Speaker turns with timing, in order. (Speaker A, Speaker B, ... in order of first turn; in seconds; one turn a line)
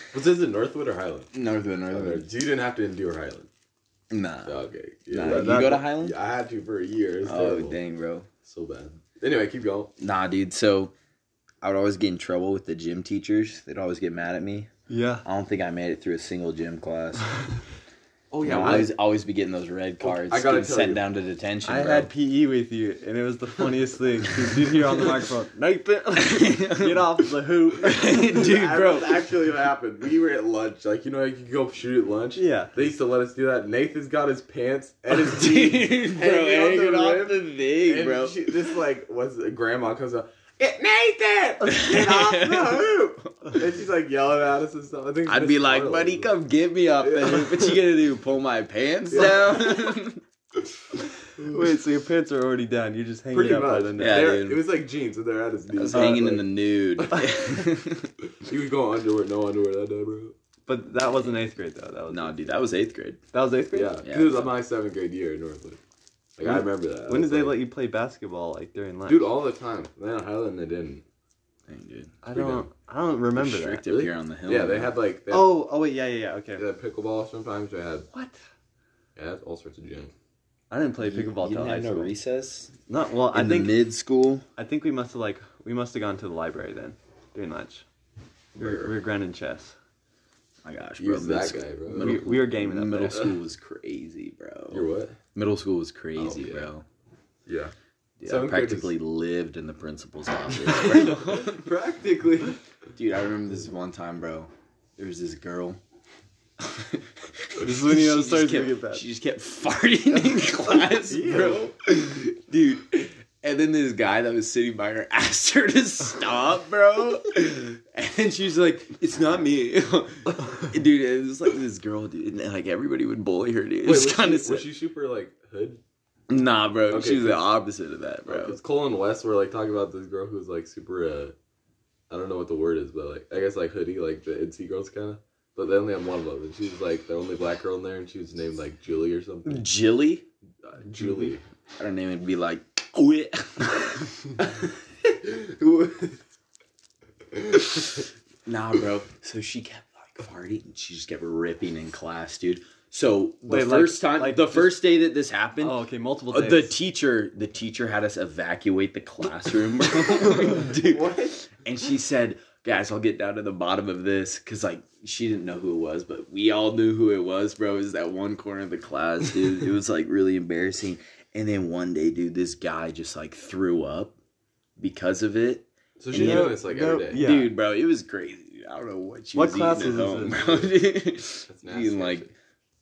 Speaker A: 0.1-1.3
Speaker B: 1.3-2.3
Speaker A: 1.9-3.5
Speaker B: 4.1-4.6
Speaker A: 4.5-7.8
Speaker B: 5.1-6.2
Speaker C: 5.3-5.5
Speaker B: 7.2-8.3
Speaker A: 8.4-9.9
Speaker B: 10.0-10.9
Speaker B: 11.6-14.7
Speaker C: 14.9-15.2
Speaker B: 15.2-17.3
Speaker A: 18.3-18.9
Speaker B: 18.4-22.1
Speaker C: 18.5-18.8
Speaker A: 20.0-21.1
Speaker C: 21.6-28.5
Speaker B: 26.2-27.3
Speaker B: 27.8-29.3
Speaker A: 28.2-46.3
Speaker C: 32.4-32.7
Speaker B: 35.1-38.7
Speaker B: 41.7-43.5
Speaker B: 45.3-50.2
Speaker A: 47.0-47.8
Speaker A: 49.1-49.9
Speaker C: 51.4-54.2
Speaker A: 53.3-57.7
Speaker B: 54.0-54.7
Speaker B: 55.7-58.1
Speaker C: 55.9-56.4
Speaker A: 58.3-60.4
Speaker C: 60.7-62.5
Speaker B: 62.1-63.2
Speaker C: 63.3-64.0
Speaker A: 63.7-65.8
Speaker B: 64.0-64.6
Speaker A: 66.4-67.6
Speaker C: 66.5-69.3
Speaker A: 69.1-71.0
Speaker B: 71.7-72.2
Speaker C: 72.2-73.8
Speaker A: 72.3-72.7
Speaker B: 73.3-75.0
Speaker A: 73.9-75.6
Speaker C: 75.3-76.6
Speaker A: 76.6-78.1
Speaker A: 79.2-80.1
Speaker C: 80.7-82.2
Speaker B: 81.0-82.7
Speaker C: 82.9-83.8
Speaker B: 83.3-84.5
Speaker C: 84.6-87.8
Speaker A: 88.5-88.9
Speaker C: 88.6-89.8
Speaker B: 90.6-96.8
Speaker A: 91.0-92.2
Speaker C: 91.9-93.2
Speaker A: 94.7-95.2
Speaker A: 96.2-96.7
Speaker A: 97.5-97.7
Speaker B: 98.2-101.6
Speaker A: 98.2-98.9
Speaker A: 100.7-102.5
Speaker B: 103.0-105.8
Speaker B: 106.6-124.7
Speaker C: 107.6-109.0
Speaker A: 111.1-111.6
Speaker A: 123.8-125.8
Speaker B: 126.3-128.6
Speaker A: 126.9-127.5
Speaker A: 128.3-131.4
Speaker A: 132.1-139.7
Speaker B: 139.5-140.3
Speaker A: 140.7-141.4
Speaker B: 141.8-144.3
Speaker B: 148.5-155.8
Speaker C: 153.5-154.8
Speaker C: 155.6-156.8
Speaker B: 156.3-174.2
Speaker A: 160.7-161.3
Speaker B: 174.8-176.6
Speaker A: 176.0-177.3
Speaker C: 176.2-177.5
Speaker B: 177.1-182.3
Speaker C: 179.3-180.4
Speaker A: 180.3-180.7
Speaker A: 181.5-182.3